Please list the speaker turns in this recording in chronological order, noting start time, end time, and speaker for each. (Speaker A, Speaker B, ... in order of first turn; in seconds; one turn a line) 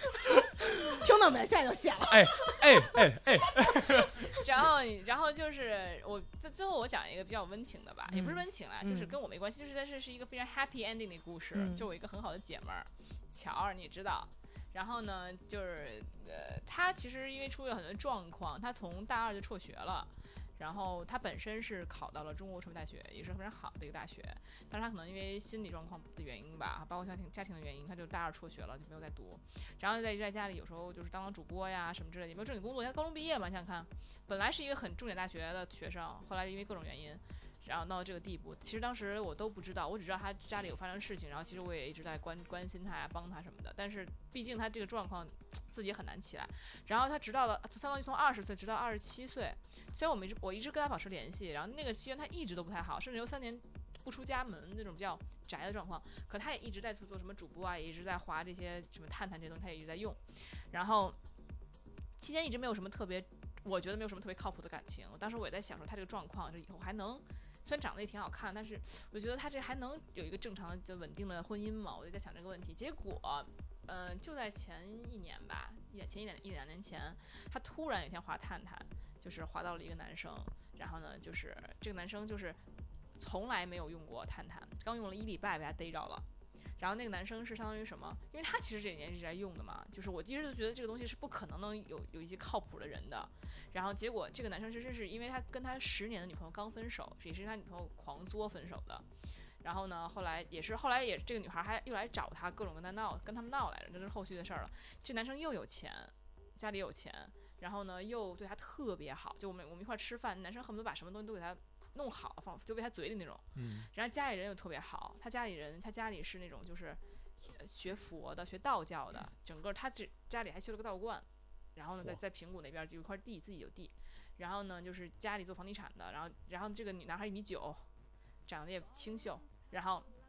Speaker A: 0.6-0.9
Speaker B: 0.9-3.0
Speaker A: 2.1-4.3
Speaker C: 4.3-61.2
Speaker B: 8.1-9.2
Speaker B: 11.5-11.8
Speaker C: 62.2-82.6
Speaker C: 83.2-86.2
Speaker C: 86.8-99.0
Speaker C: 99.6-127.8
Speaker A: 113.5-113.9
Speaker C: 128.4-130.1